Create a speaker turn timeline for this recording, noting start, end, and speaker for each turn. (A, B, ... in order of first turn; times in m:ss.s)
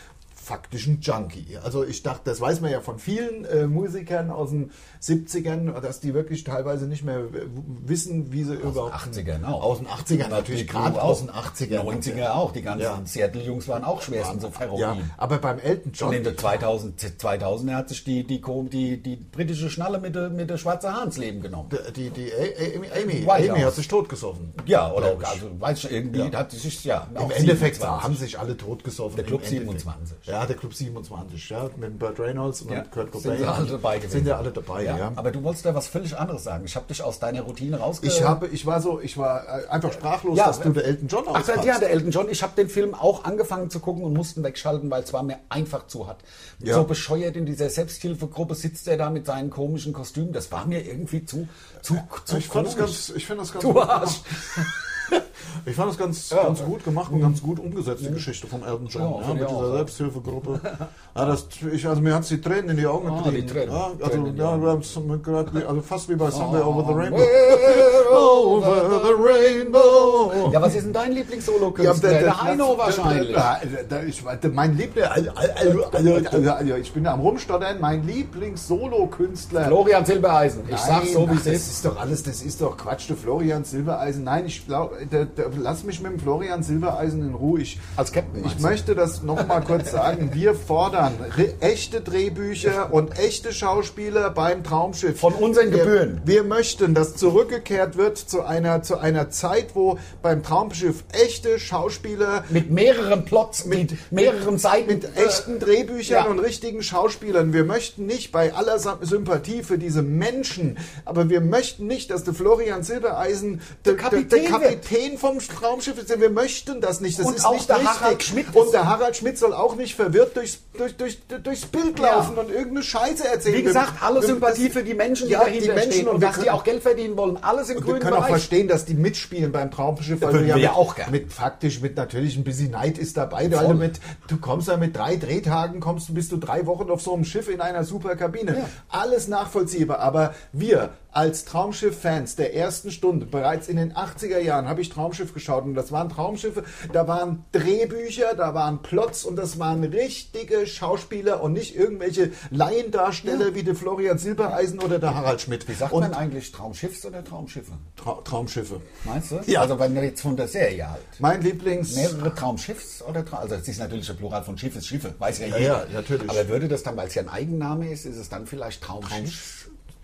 0:00.3-0:13.0 A
0:08.6-0:15.1 B
0:14.1-0:16.5 A
0:16.0-0:21.8 B
0:21.7-0:25.4 A
0:23.0-0:23.8 B
0:24.6-0:28.2 B
0:27.1-0:35.2 A
0:29.1-0:30.3 B
0:32.7-0:38.4 B
0:38.0-0:41.8 A
0:40.3-0:40.7 B
0:41.3-0:53.0 B
0:46.6-0:46.9 A
0:52.3-0:55.1 A
0:53.6-0:55.1 B
0:55.6-1:10.8 A
0:56.3-0:57.4 B
0:58.9-0:59.9 B
1:03.0-1:04.8 B
1:06.3-1:13.5 B
1:11.7-1:19.8 A
1:15.7-1:16.4 B
1:19.6-1:21.7 B
1:20.7-1:27.8 A
1:28.0-1:28.8 B
1:28.4-1:42.6 A
1:35.2-1:36.2 B
1:42.5-1:45.4 B
1:43.6-2:06.6 A
1:53.8-1:54.8 B
1:57.2-1:58.8 B
2:02.0-2:02.4 B
2:03.5-2:08.5 B
2:07.8-2:36.2 A
2:10.2-2:11.1 B
2:13.5-2:13.9 B
2:35.7-2:37.9 B
2:38.0-2:38.9 A
2:39.0-2:41.2 B
2:39.4-2:39.7 A
2:41.2-2:42.3 A
2:41.8-2:49.5 B
2:45.4-2:46.5 A
2:49.0-2:49.7 A